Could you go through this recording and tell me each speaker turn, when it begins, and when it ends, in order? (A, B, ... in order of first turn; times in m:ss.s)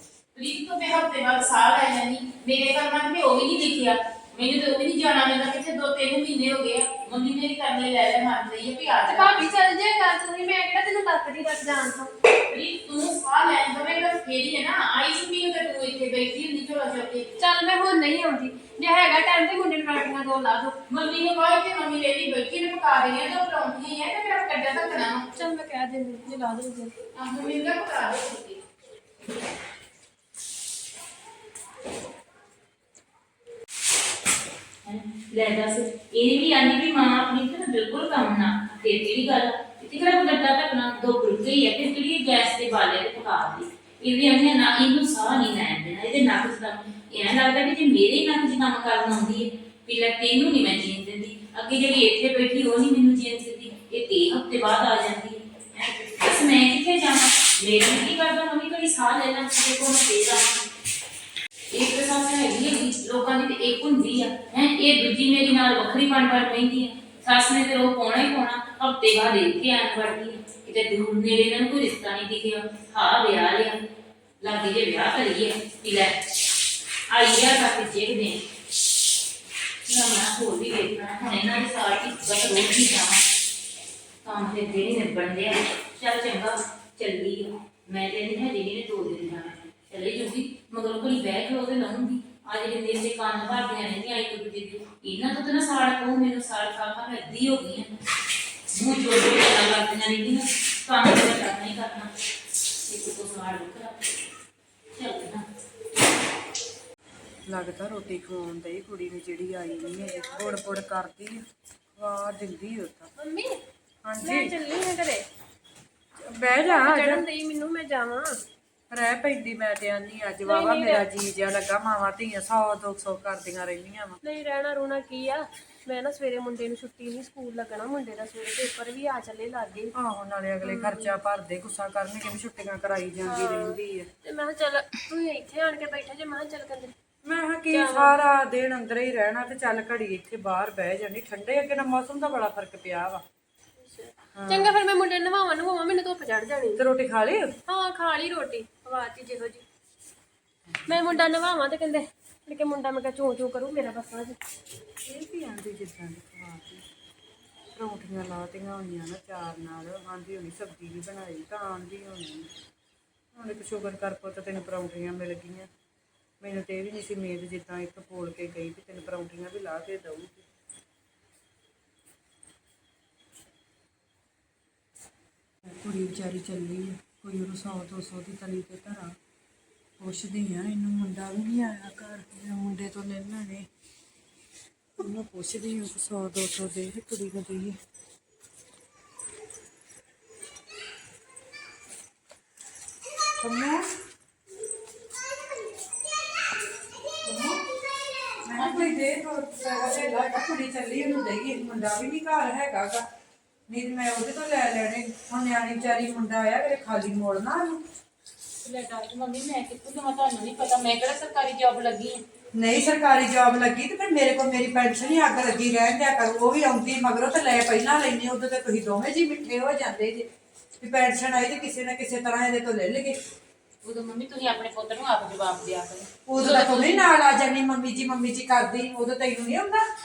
0:00.3-0:09.4 A
0:09.1-0:12.1 B
0:12.5-0:17.3 A
0:17.4-0:20.8 B
0:20.9-0:25.2 A
0:25.3-0:26.9 B
0:27.1-0:28.6 A
0:34.8-1:00.6 A
1:01.7-1:13.8 A
1:14.4-1:16.2 A
1:17.1-1:18.4 A
1:19.9-1:23.2 A
1:24.2-1:37.9 A
1:38.7-1:42.1 A
1:42.8-1:44.0 A
1:44.9-1:45.4 A
1:47.5-1:51.4 C
1:49.7-1:50.9 B
1:52.0-1:53.1 C
1:53.2-1:53.6 B
1:54.0-1:54.5 C
1:54.2-1:55.2 B
1:56.2-1:57.2 C
1:56.6-1:58.4 B
1:58.9-2:04.2 C
2:00.4-2:01.0 B
2:04.2-2:09.9 B
2:09.9-2:14.1 C
2:10.6-2:11.1 B
2:13.2-2:16.9 B
2:17.2-2:23.2 C
2:17.7-2:18.2 B
2:23.8-2:26.8 B
2:24.4-2:24.8 C
2:26.8-2:27.5 C
2:27.7-2:29.6 B
2:30.7-2:31.2 C
2:30.9-2:34.4 B
2:35.0-2:36.8 C
2:37.7-2:42.5 C
2:43.3-2:45.7 C
2:46.4-2:50.5 C
2:55.6-2:59.2 C
3:00.0-3:03.7 C
3:05.0-3:07.8 C
3:13.4-3:13.9 C
3:17.2-3:17.6 C
3:18.4-3:23.0 C
3:18.6-3:18.8 A
3:23.7-3:27.8 C
3:28.6-3:32.2 A
3:32.6-3:40.3 C
3:40.8-3:43.2 C
3:43.8-3:47.1 A
3:46.3-3:49.8 C